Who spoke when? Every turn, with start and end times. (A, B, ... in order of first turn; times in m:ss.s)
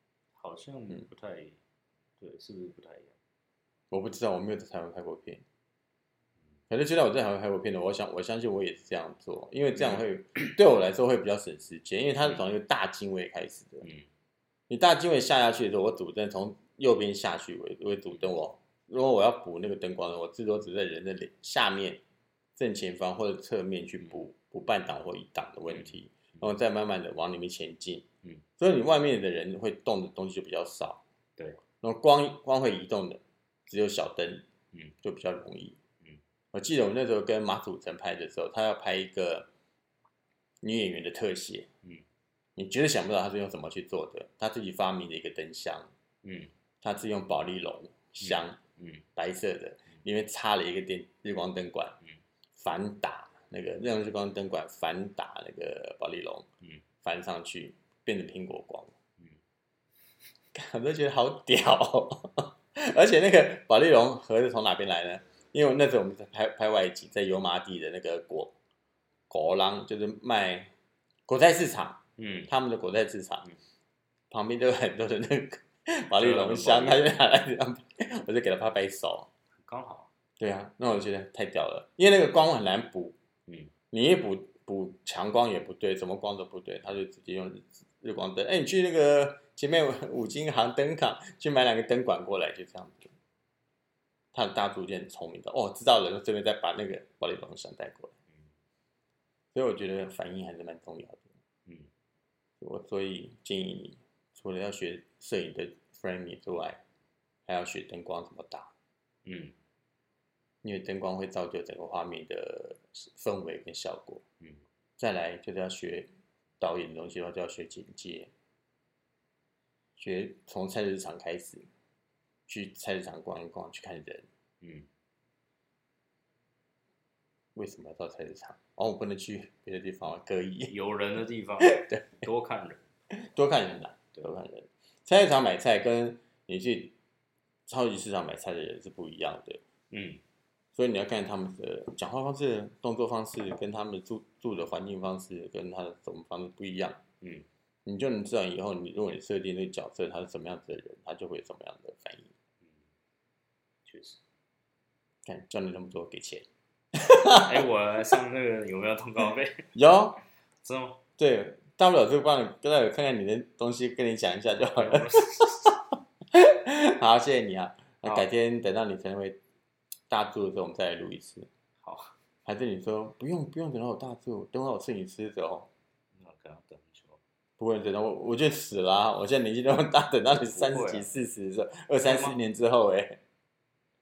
0:00.4-0:01.6 A
0:02.2-0:03.2 A
0:03.9-0:05.4 B
0:06.7-0:13.9 B
0:09.8-0:10.0 A
0:13.8-0:14.1 A
0:14.7-0:22.0 B
0:22.6-0:28.1 B
0:25.7-0:26.5 A
0:28.6-0:31.0 B
0:31.4-0:31.6 A
0:31.8-0:34.5 B
0:35.0-0:35.8 B
0:36.5-0:39.5 B
0:40.6-0:41.7 B
0:42.6-0:45.9 B
0:46.2-0:46.5 A
0:46.8-0:48.6 B
0:48.2-0:49.0 A
0:49.2-0:52.0 B
0:52.6-0:56.5 B
0:57.0-0:58.9 B
1:00.5-1:08.5 B
1:09.3-1:10.7 B
1:11.3-1:13.5 B
1:12.2-1:12.5 A
1:14.3-1:19.3 B
1:16.2-1:17.1 A
1:19.6-1:20.1 A
1:20.4-1:23.2 B
1:23.5-1:23.7 A
1:23.9-1:33.1 B
1:34.3-1:38.1 B
1:39.5-1:41.3 B
1:42.6-1:46.8 B
1:47.4-1:48.7 B
1:49.2-1:49.5 A
1:50.6-1:54.2 B
1:55.0-1:56.1 B
1:56.6-1:58.3 B
2:00.0-2:01.7 B
2:02.5-2:04.3 B
2:04.6-2:04.9 A
2:07.5-2:10.7 B
2:10.7-2:12.8 A
2:11.6-2:12.1 B
2:13.2-2:16.9 B
2:17.7-2:19.6 B
2:19.9-2:20.2 A
2:20.7-2:27.0 B
2:27.2-2:27.5 A
2:27.8-2:32.3 B
2:33.8-2:34.2 A
2:35.2-2:37.7 B
2:37.3-2:39.7 A
2:39.7-2:40.2 B
2:40.6-2:41.0 A
2:41.2-2:45.8 B
2:44.7-2:45.7 A
2:46.3-2:49.4 B
2:50.1-2:51.5 B
2:51.8-2:52.1 A
2:52.4-2:55.7 B
2:56.1-2:57.2 A
2:57.6-3:03.2 B
3:00.4-3:01.1 A
3:02.0-3:02.4 A